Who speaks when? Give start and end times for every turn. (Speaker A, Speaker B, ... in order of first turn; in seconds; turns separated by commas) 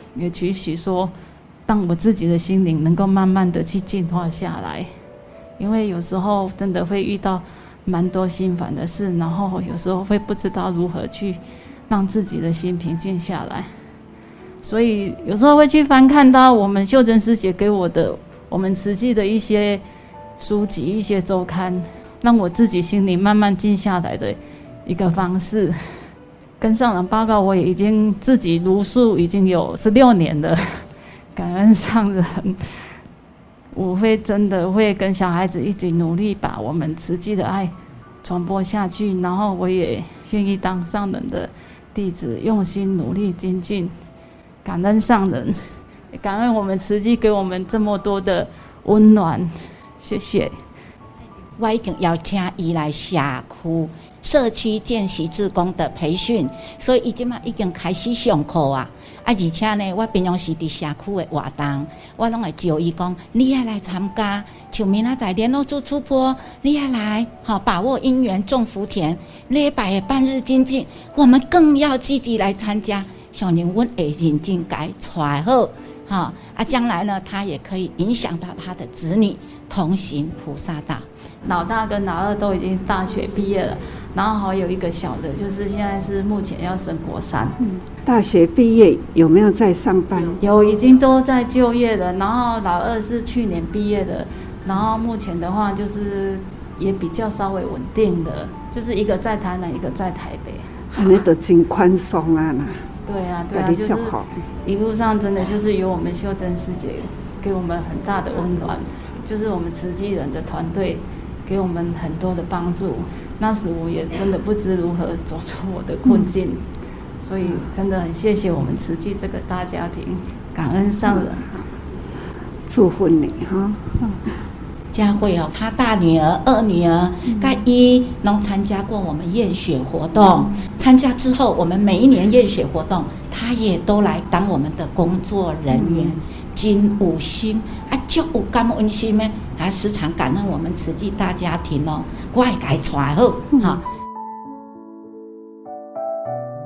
Speaker A: 0.1-1.1, Speaker A: 1.7-4.9, Speaker A: 5.6-13.7, Speaker A: 14.6-19.8, Speaker A: 20.4-25.8, Speaker A: 26.6-32.6, Speaker A: 33.7-43.9, Speaker A: 44.6-45.6, Speaker A: 46.1-50.5, Speaker B: 51.6-81.0, Speaker A: 81.5-87.6, Speaker C: 87.6-90.4, Speaker A: 90.4-101.1, Speaker C: 100.9-102.8, Speaker A: 103.1-116.6, Speaker C: 103.5-104.4, Speaker C: 116.1-116.3, Speaker A: 117.2-121.5, Speaker C: 121.1-121.7, Speaker C: 122.7-124.4, Speaker B: 124.9-143.8, Speaker C: 127.3-127.6, Speaker C: 135.7-136.2